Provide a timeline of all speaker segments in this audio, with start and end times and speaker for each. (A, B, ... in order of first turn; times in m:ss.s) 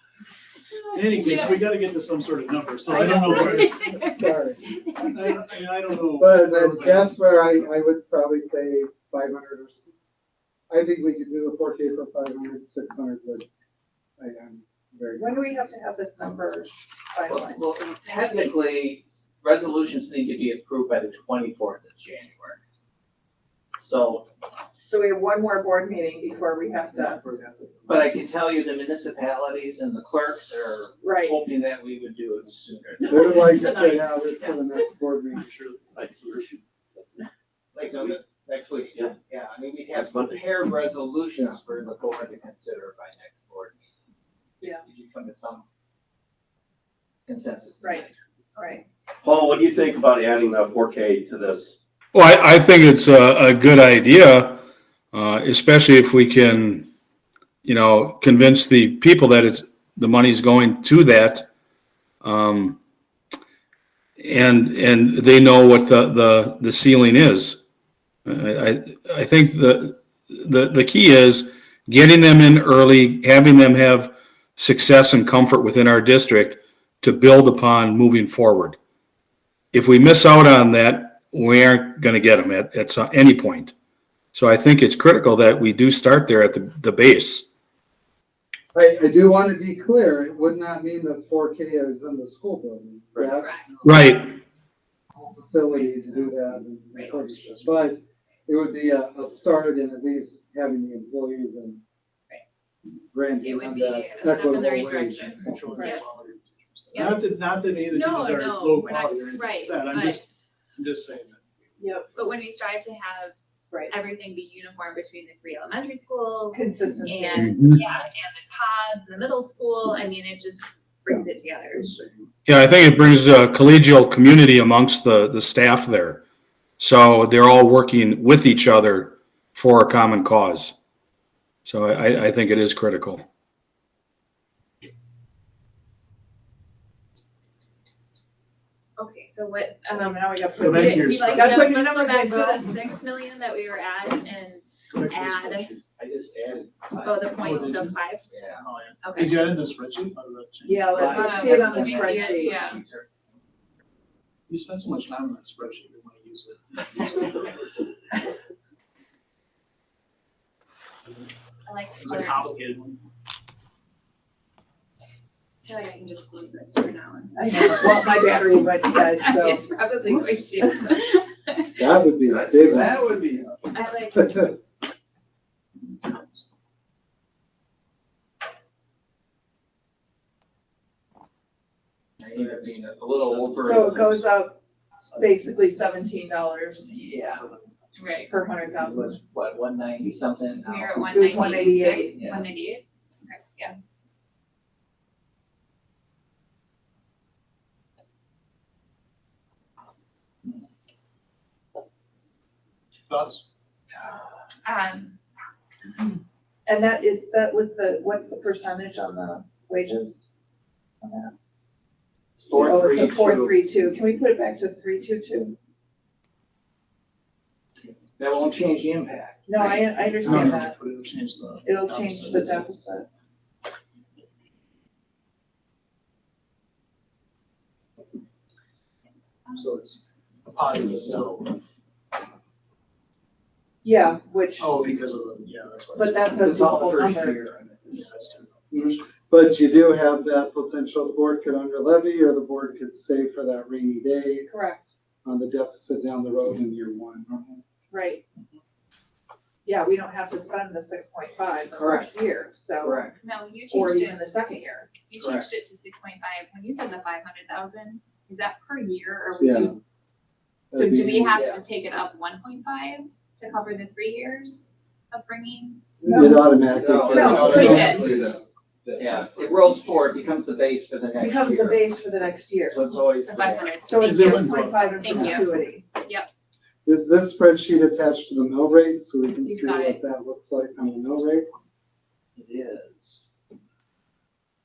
0:00.9-0:03.8 A
0:00.9-0:01.7 B
0:02.9-0:05.4 B
0:03.1-0:04.8 C
0:05.0-0:07.4 A
0:06.2-0:09.9 C
0:10.7-0:13.5 C
0:14.2-0:15.5 C
0:15.2-0:17.7 D
0:17.3-0:22.6 E
0:23.8-0:24.3 E
0:24.8-0:27.2 D
0:27.0-0:28.2 A
0:27.9-0:33.5 E
0:31.0-0:31.4 D
0:33.0-0:35.5 C
0:33.1-0:34.3 D
0:35.4-0:36.3 A
0:37.7-0:43.9 E
0:39.9-0:40.4 F
0:44.6-0:45.6 E
0:47.3-0:48.1 E
0:48.6-0:48.8 D
0:49.2-0:51.7 F
0:52.1-0:54.6 G
0:55.1-0:56.9 G
0:57.6-1:01.5 G
1:02.2-1:02.8 G
1:04.2-1:07.6 G
1:08.3-1:18.8 G
1:19.7-1:23.7 G
1:24.3-1:27.5 G
1:28.7-1:33.8 C
1:33.3-1:33.8 B
1:33.8-1:34.4 G
1:35.4-1:41.8 C
1:35.7-1:36.3 B
1:36.9-1:37.4 B
1:37.1-1:37.8 A
1:43.1-1:45.6 C
1:43.4-1:46.0 B
1:45.3-1:51.7 A
1:45.7-1:46.0 D
1:46.9-1:47.3 B
1:47.9-1:50.3 B
1:51.8-1:52.1 D
1:52.1-1:53.4 B
1:53.9-2:01.9 B
1:56.5-1:57.6 D
1:57.5-1:57.8 G
2:02.5-2:06.2 G
2:06.8-2:10.8 G
2:11.6-2:13.3 G
2:19.0-2:25.7 B
2:19.9-2:22.6 D
2:20.6-2:21.8 A
2:24.9-2:25.8 A
2:26.0-2:27.7 E
2:27.0-2:28.3 B
2:27.3-2:31.2 A
2:28.2-2:28.7 E
2:29.0-2:29.5 B
2:30.6-2:32.6 D
2:30.9-2:33.1 E
2:31.1-2:32.8 B
2:34.5-2:37.8 A
2:41.6-2:42.5 B
2:42.0-2:43.0 A
2:45.7-2:48.2 B
2:47.4-2:49.7 D
2:49.0-2:51.9 B
2:51.8-2:53.2 C
2:52.3-2:53.4 E
2:52.6-2:53.1 F
2:53.7-2:54.5 B
2:54.1-2:54.6 C
3:02.2-3:04.2 E
3:02.3-3:02.7 A
3:03.6-3:04.6 D
3:05.2-3:06.9 D
3:06.9-3:07.5 E
3:07.4-3:07.6 A
3:08.0-3:08.3 B
3:08.3-3:09.2 D
3:08.8-3:11.4 E
3:10.7-3:13.4 B
3:11.1-3:12.2 D
3:12.1-3:12.5 E
3:23.1-3:23.4 A
3:24.6-3:25.1 B
3:26.7-3:30.3 D
3:31.0-3:31.3 D
3:32.4-3:33.6 E
3:32.6-3:35.6 D
3:38.2-3:39.6 E
3:39.5-3:40.8 D
3:39.6-3:42.7 A
3:41.6-3:43.1 D
3:49.6-3:51.6 A
3:53.8-3:54.8 D
3:54.6-3:56.6 A
3:56.0-3:57.5 D
3:56.4-3:58.0 E
3:57.9-3:58.9 A
3:58.7-4:04.5 C
4:04.5-4:04.9 D
4:05.2-4:07.6 C
4:07.9-4:08.2 D
4:09.6-4:13.0 D
4:11.7-4:12.1 E
4:12.8-4:13.2 E
4:13.2-4:14.2 B
4:13.7-4:14.9 D
4:15.1-4:19.8 B
4:15.2-4:15.5 E
4:19.4-4:19.8 C
4:20.7-4:21.4 C
4:20.7-4:25.8 B
4:21.3-4:21.6 E
4:26.0-4:28.3 C
4:26.1-4:26.5 D
4:26.7-4:28.3 E
4:27.0-4:29.6 F
4:27.1-4:28.0 D
4:27.6-4:28.1 B
4:29.0-4:31.9 E
4:31.2-4:32.9 D
4:32.7-4:33.8 E
4:33.2-4:36.3 B
4:33.8-4:35.8 D
4:34.0-4:35.1 A
4:36.8-4:41.5 C
4:39.3-4:40.0 B
4:42.4-4:42.9 E